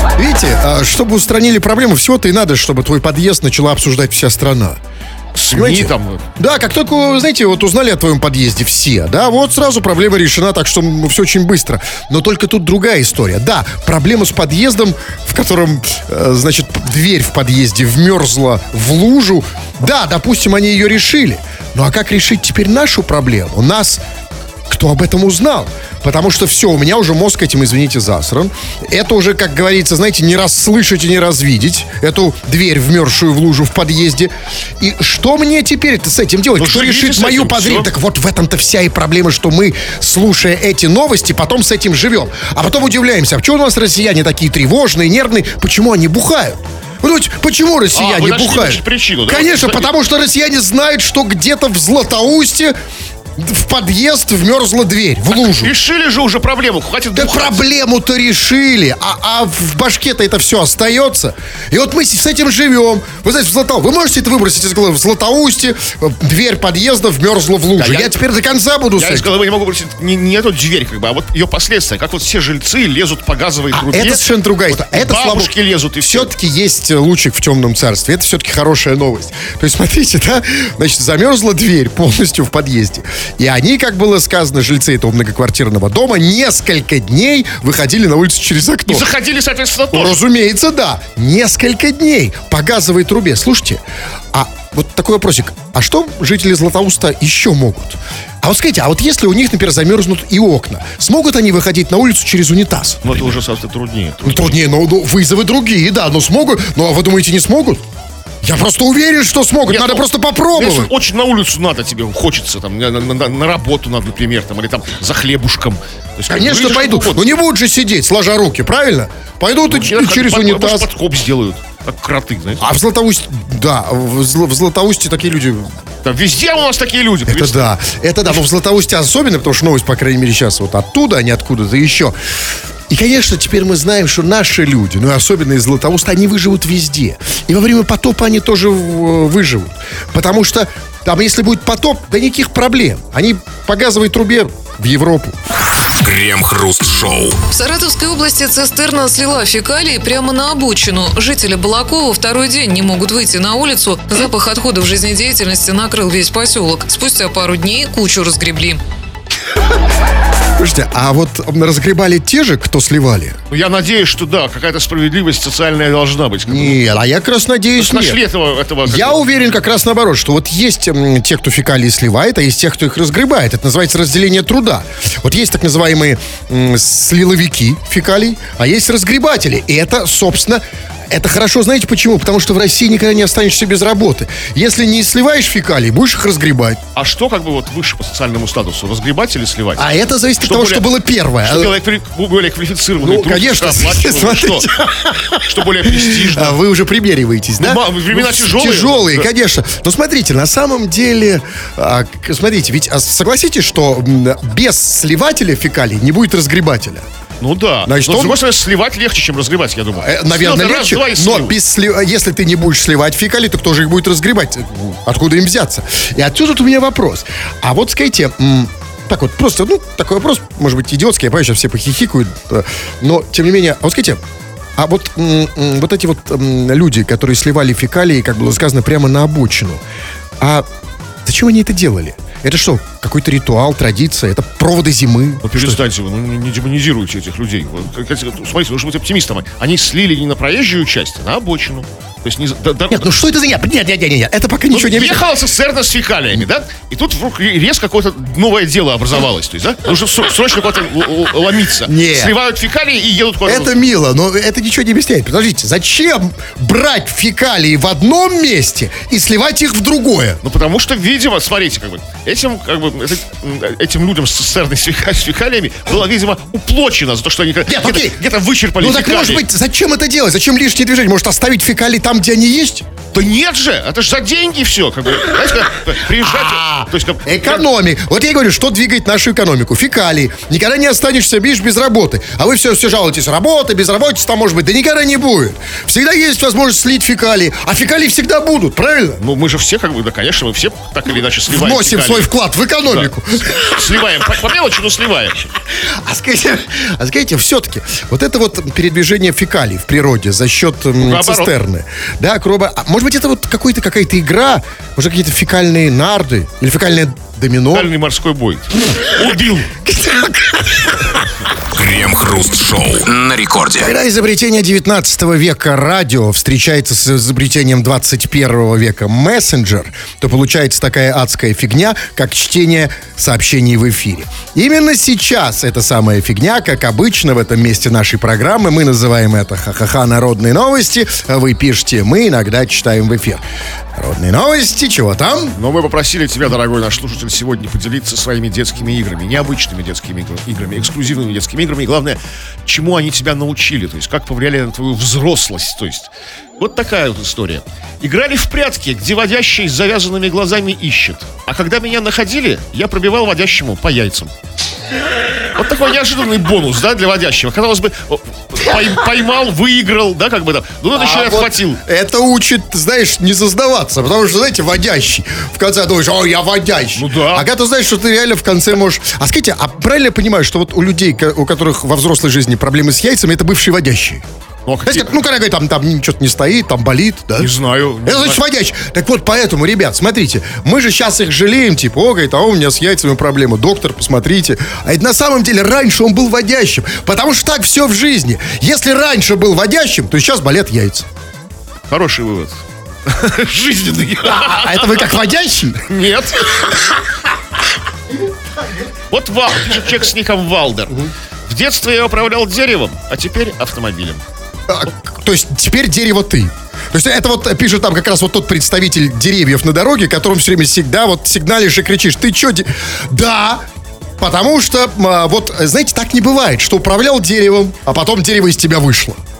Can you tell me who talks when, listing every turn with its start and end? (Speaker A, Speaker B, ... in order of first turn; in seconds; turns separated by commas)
Speaker A: 0.2-4.8, Speaker B: 5.3-6.2, Speaker A: 5.5-24.0, Speaker A: 24.7-52.7, Speaker B: 36.5-37.9, Speaker B: 47.9-49.9, Speaker A: 53.4-55.7, Speaker B: 55.3-57.6, Speaker A: 57.1-69.3, Speaker B: 67.8-68.2, Speaker B: 69.0-76.3, Speaker A: 73.7-89.1, Speaker B: 88.9-90.2, Speaker A: 89.9-103.3, Speaker B: 103.0-104.6, Speaker A: 104.2-107.8, Speaker A: 108.4-110.9, Speaker B: 109.7-117.3, Speaker A: 116.3-120.9, Speaker B: 119.7-122.7, Speaker A: 122.6-125.7, Speaker B: 126.0-127.7, Speaker A: 127.3-132.2, Speaker A: 132.9-145.4, Speaker C: 146.0-147.4, Speaker D: 147.5-158.8, Speaker A: 160.6-163.4, Speaker B: 163.5-166.8, Speaker A: 166.5-168.2, Speaker B: 167.8-169.2, Speaker A: 168.8-186.8, Speaker B: 186.9-189.9, Speaker A: 189.8-191.8, Speaker B: 190.4-190.8, Speaker B: 191.4-194.7, Speaker A: 193.0-207.1, Speaker B: 195.4-196.6, Speaker B: 197.6-199.3, Speaker B: 207.4-211.6, Speaker A: 207.8-208.4, Speaker A: 209.9-224.2, Speaker A: 224.8-229.8, Speaker A: 230.4-230.7, Speaker A: 231.2-235.8, Speaker B: 235.4-243.0, Speaker A: 242.9-245.2, Speaker B: 244.7-253.7, Speaker A: 251.8-252.3, Speaker A: 253.4-260.4, Speaker B: 260.4-269.5, Speaker A: 267.7-268.2, Speaker A: 268.8-272.9, Speaker B: 273.1-277.6, Speaker A: 276.0-289.2, Speaker B: 289.2-292.3, Speaker A: 291.5-293.8, Speaker B: 292.9-295.5, Speaker A: 295.7-307.9, Speaker B: 301.0-301.5, Speaker B: 307.7-309.8, Speaker A: 309.9-311.0, Speaker C: 311.7-313.9, Speaker A: 313.8-333.4, Speaker A: 333.9-335.6, Speaker B: 335.6-354.3, Speaker B: 355.5-361.8, Speaker A: 360.9-374.2, Speaker B: 366.9-367.5, Speaker B: 374.6-375.1, Speaker A: 374.8-377.5, Speaker B: 377.4-378.4, Speaker A: 378.0-391.1, Speaker B: 391.9-395.1, Speaker A: 394.2-395.8, Speaker B: 395.8-397.0, Speaker B: 399.1-404.2, Speaker A: 404.7-413.6, Speaker A: 414.2-419.2